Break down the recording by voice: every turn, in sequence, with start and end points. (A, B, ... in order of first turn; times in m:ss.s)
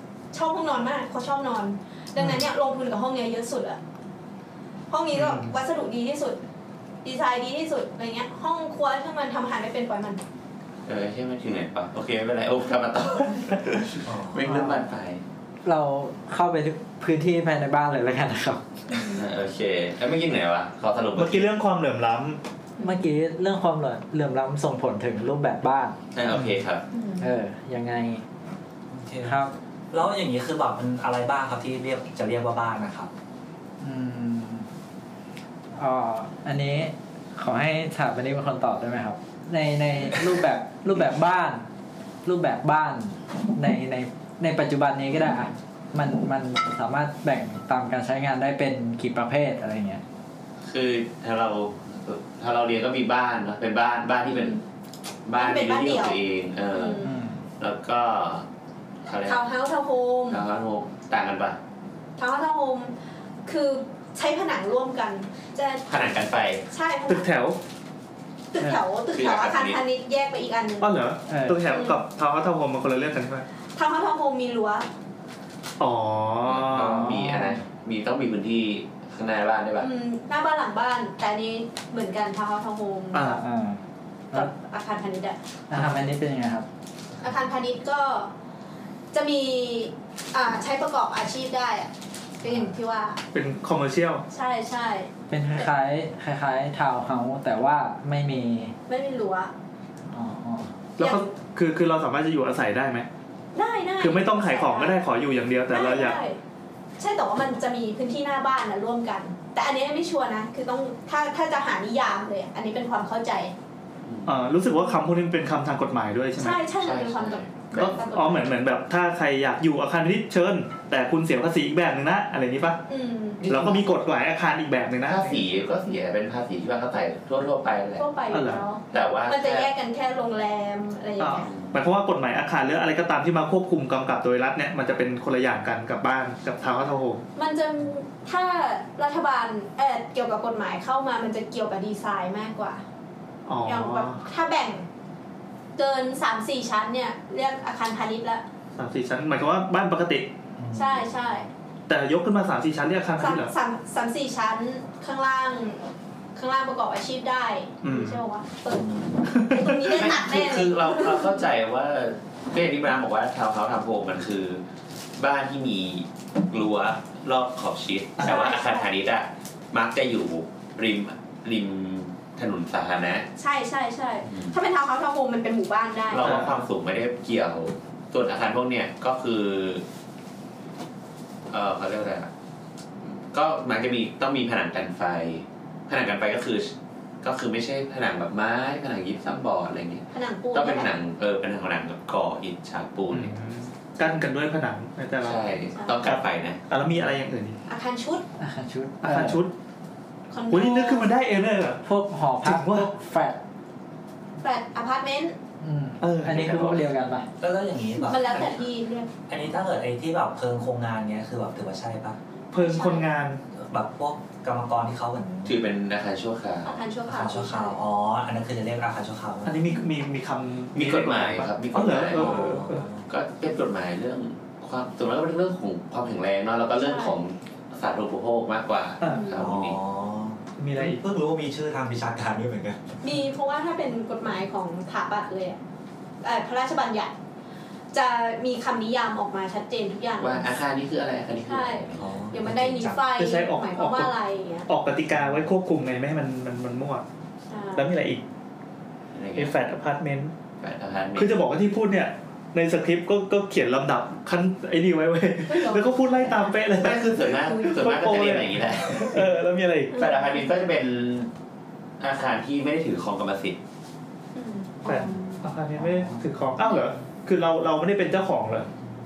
0:00.3-0:03.8 A
0:02.2-0:02.4 B
0:04.9-0:06.4 A
0:05.1-0:05.5 B
0:07.0-0:10.2 A
0:10.9-0:15.2 C
0:14.0-0:14.8 D
0:15.6-0:18.6 E
0:18.9-0:19.2 A
0:19.1-0:21.5 C
0:21.2-0:22.4 B
0:22.8-0:26.0 E
0:26.1-0:26.8 C
0:26.3-0:26.6 B
0:26.9-0:27.3 A
0:27.2-0:28.2 E
0:28.9-0:33.1 D
0:29.2-0:29.5 E
0:33.8-0:34.7 E
0:35.8-0:41.6 E
0:42.2-0:50.0 E
0:50.6-0:54.6 C
0:54.3-0:54.6 A
0:55.3-0:57.1 C
0:55.4-0:56.2 A
0:56.7-0:57.1 A
0:57.0-0:57.4 E
0:57.6-0:58.5 C
0:59.1-0:59.4 C
0:59.3-1:00.4 A
1:00.3-1:01.6 C
1:02.2-1:02.9 A
1:03.5-1:06.0 A
1:05.9-1:06.6 C
1:06.7-1:07.3 A
1:07.1-1:07.6 B
1:08.5-1:10.9 A
1:09.1-1:09.8 C
1:10.8-1:13.5 B
1:11.3-1:11.6 E
1:11.7-1:12.0 A
1:13.8-1:14.9 A
1:15.8-1:17.2 B
1:16.4-1:19.9 C
1:17.0-1:17.6 E
1:19.8-1:23.4 A
1:23.1-1:23.4 B
1:23.3-1:23.8 E
1:24.3-1:25.4 A
1:25.7-1:26.7 E
1:25.7-1:26.0 B
1:27.2-1:28.3 A
1:29.1-1:33.2 A
1:33.3-1:34.2 B
1:34.3-1:35.7 A
1:35.3-1:38.8 E
1:38.9-1:39.5 A
1:40.1-1:40.7 E
1:41.0-1:43.1 B
1:41.0-1:41.2 A
1:43.5-1:45.0 A
1:44.0-1:46.2 B
1:45.7-1:46.4 A
1:47.0-1:53.5 A
1:54.0-1:54.4 C
1:54.3-1:56.6 B
1:56.4-1:58.5 A
1:56.8-1:58.0 C
1:57.8-2:02.8 B
2:02.9-2:03.5 A
2:03.4-2:03.9 C
2:03.5-2:05.2 B
2:05.0-2:08.1 C
2:08.0-2:11.5 A
2:08.3-2:08.6 B
2:08.9-2:09.7 C
2:11.2-2:17.2 B
2:11.4-2:11.8 C
2:17.4-2:22.8 A
2:23.5-2:24.2 B
2:23.7-2:24.9 A
2:25.8-2:28.4 A
2:28.8-2:30.3 B
2:30.6-2:31.1 D
2:30.7-2:31.5 A
2:31.9-2:33.5 B
2:33.2-2:35.8 A
2:36.4-2:41.4 A
2:37.8-2:38.2 B
2:39.3-2:39.9 B
2:39.9-2:44.6 C
2:45.2-2:53.3 C
2:48.2-2:48.5 B
2:48.2-2:48.9 A
2:53.4-2:56.4 A
2:54.3-2:54.6 C
2:56.1-2:59.8 C
2:56.2-2:56.7 B
3:01.5-3:02.3 C
3:03.0-3:13.4 C
3:10.1-3:10.9 A
3:13.1-3:15.4 B
3:15.2-3:16.6 C
3:15.8-3:16.0 A
3:16.0-3:17.6 B
3:17.7-3:18.2 A
3:18.4-3:19.4 E
3:19.0-3:19.5 B
3:20.3-3:21.1 A
3:20.5-3:21.8 B
3:21.8-3:23.4 E
3:22.4-3:22.9 B
3:24.4-3:25.4 A
3:25.6-3:27.3 E
3:26.0-3:26.5 B
3:26.3-3:26.9 C
3:27.4-3:28.6 D
3:28.1-3:29.1 A
3:29.3-3:32.2 D
3:32.5-3:33.4 B
3:32.6-3:33.1 A
3:33.5-3:35.6 D
3:35.4-3:36.8 C
3:36.6-3:37.8 A
3:37.1-3:39.7 D
3:39.4-3:42.8 B
3:40.7-3:49.8 C
3:42.1-3:43.1 D
3:46.8-3:47.2 A
3:49.0-3:49.3 B
3:49.0-3:49.4 A
3:49.3-3:53.0 D
3:50.6-3:51.0 B
3:53.0-3:55.6 A
3:56.2-3:57.1 A
3:57.9-4:00.5 A
4:00.2-4:02.0 C
4:01.5-4:04.7 A
4:01.9-4:03.1 D
4:03.2-4:04.1 B
4:04.7-4:07.0 B
4:07.5-4:07.9 A
4:07.8-4:08.2 B
4:09.1-4:09.5 C
4:09.4-4:10.3 B
4:10.6-4:11.4 C
4:11.2-4:20.0 B
4:15.5-4:16.5 A
4:16.8-4:19.2 C
4:19.9-4:20.5 A
4:19.9-4:21.3 C
4:22.0-4:23.6 C
4:24.4-4:25.2 A
4:24.8-4:28.7 B